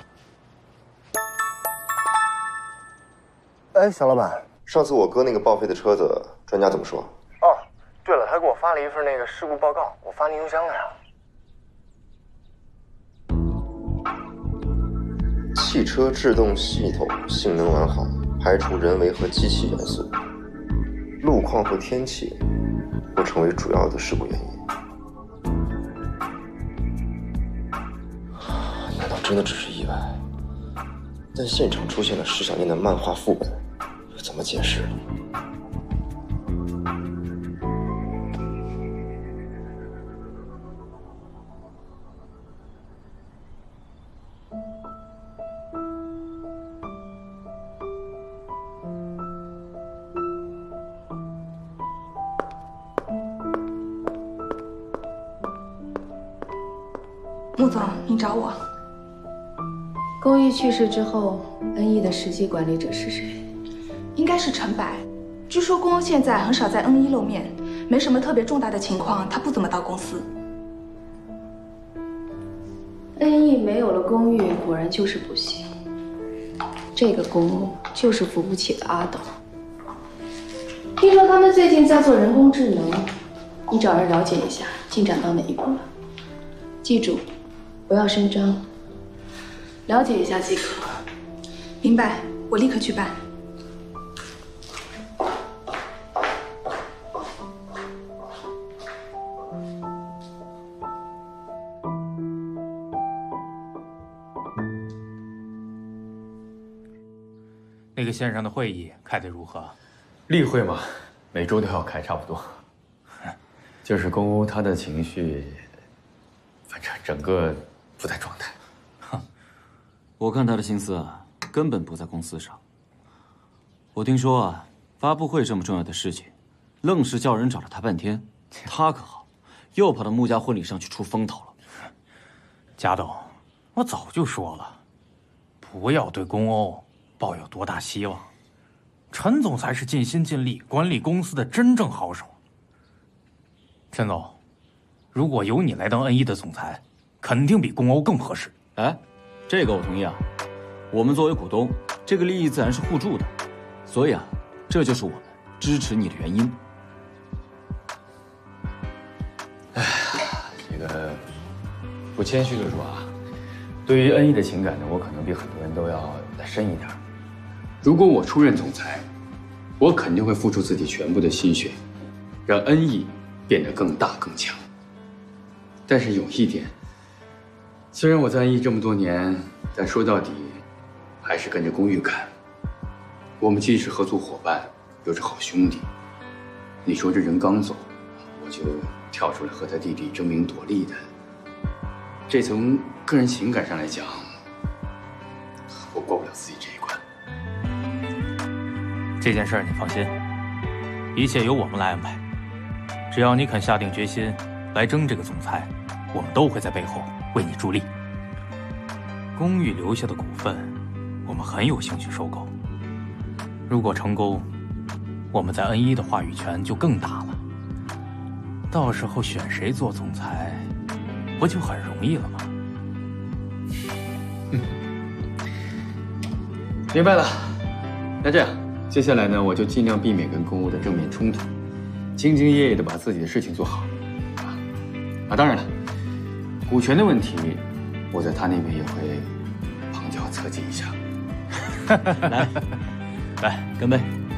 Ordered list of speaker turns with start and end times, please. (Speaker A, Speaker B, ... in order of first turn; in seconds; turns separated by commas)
Speaker A: 3.7-4.5, Speaker B: 4.7-7.1, Speaker A: 7.4-10.9, Speaker B: 15.5-20.1, Speaker B: 21.2-22.4, Speaker B: 23.1-24.6, Speaker B: 28.4-30.2, Speaker B: 31.3-33.6, Speaker B: 34.1-35.0, Speaker C: 57.6-58.6, Speaker D: 60.2-63.4, Speaker C: 64.1-70.3, Speaker D: 73.2-75.7, Speaker D: 76.9-79.3, Speaker D: 81.0-83.1, Speaker D: 83.7-85.9, Speaker D: 86.8-87.2, Speaker D: 87.9-88.6, Speaker D: 89.9-91.0, Speaker C: 91.8-93.2, Speaker E: 108.0-109.7, Speaker F: 110.3-112.6, Speaker F: 113.8-115.7, Speaker F: 116.7-118.5, Speaker G: 120.2-122.6, Speaker G: 123.9-131.5, Speaker E: 132.8-134.8, Speaker E: 135.6-138.3, Speaker E: 139.1-142.3, Speaker E: 143.9-144.3, Speaker E: 145.1-148.6, Speaker G: 148.7-150.2, Speaker G: 150.9-153.3, Speaker G: 153.8-156.6, Speaker F: 159.7-161.2, Speaker F: 162.1-163.1, Speaker F: 163.8-167.0, Speaker F: 167.8-169.0, Speaker F: 169.8-171.8, Speaker F: 172.4-174.6, Speaker F: 175.9-176.7, Speaker F: 177.9-180.6, Speaker F: 181.2-182.3, Speaker F: 183.4-185.8, Speaker F: 186.8-191.0, Speaker F: 192.3-194.3, Speaker F: 195.7-197.0, Speaker E: 199.2-200.1, Speaker E: 201.1-202.2, Speaker E: 203.1-207.9, Speaker E: 209.3-210.7, Speaker E: 211.2-212.5, Speaker E: 213.7-214.4, Speaker E: 215.3-217.4, Speaker E: 218.7-220.7, Speaker E: 221.4-222.5, Speaker F: 226.9-227.7, Speaker F: 228.2-231.5, Speaker F: 232.2-233.9, Speaker F: 235.3-235.7, Speaker F: 236.7-239.3, Speaker F: 239.9-241.0, Speaker G: 242.2-242.6, Speaker G: 243.4-244.1